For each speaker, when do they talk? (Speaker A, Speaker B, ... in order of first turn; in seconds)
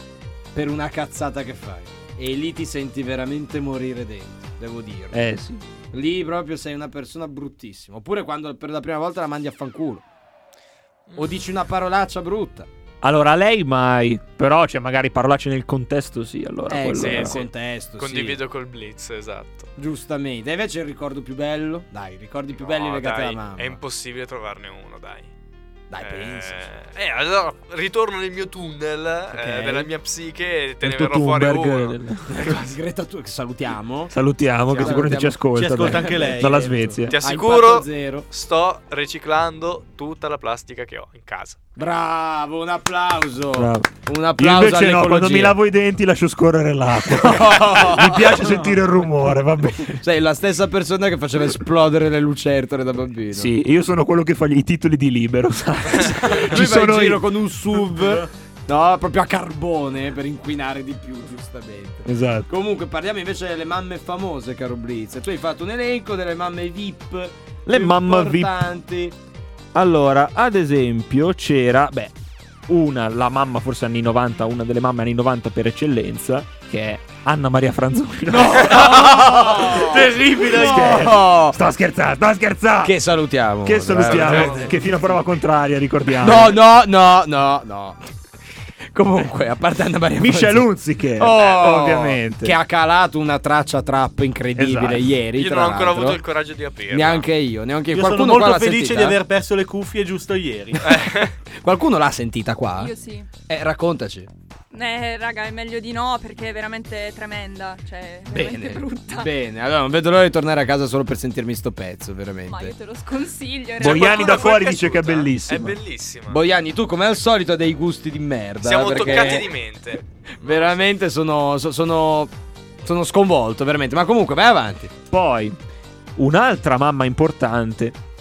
Speaker A: 0.5-5.3, 5.9-10.0, 11.2-12.7, 16.7-18.4, 19.8-23.8, 25.9-26.7, 29.3-29.9, 32.3-34.1, 34.7-38.2, 41.8-45.6, 47.1-48.6, 50.0-53.5, 56.0-69.2, 78.3-81.6, 82.8-84.8, 86.2-88.0, 88.9-96.2, 96.9-99.2, 100.8-102.9, 103.5-104.3, 108.3-112.7, 116.3-119.5, 120.3-122.3, 122.8-124.9
Speaker B: 5.1-5.6, 13.0-17.4, 30.8-32.6, 34.1-37.1, 43.5-50.0, 53.3-57.3, 62.0-62.5, 67.7-68.6, 69.7-72.1, 72.7-79.8, 80.4-83.0, 83.6-86.6, 90.2-92.6, 94.5-95.1, 113.8-115.8, 125.1-125.6, 126.2-128.0
Speaker C: 16.9-19.7, 22.6-25.3, 26.0-32.0, 37.1-41.6, 95.4-97.3, 100.9-101.3, 113.8-116.4, 118.6-120.8
Speaker D: 35.5-36.7, 79.8-81.0, 97.9-100.9
Speaker E: 102.8-103.3, 104.7-109.3, 112.5-114.5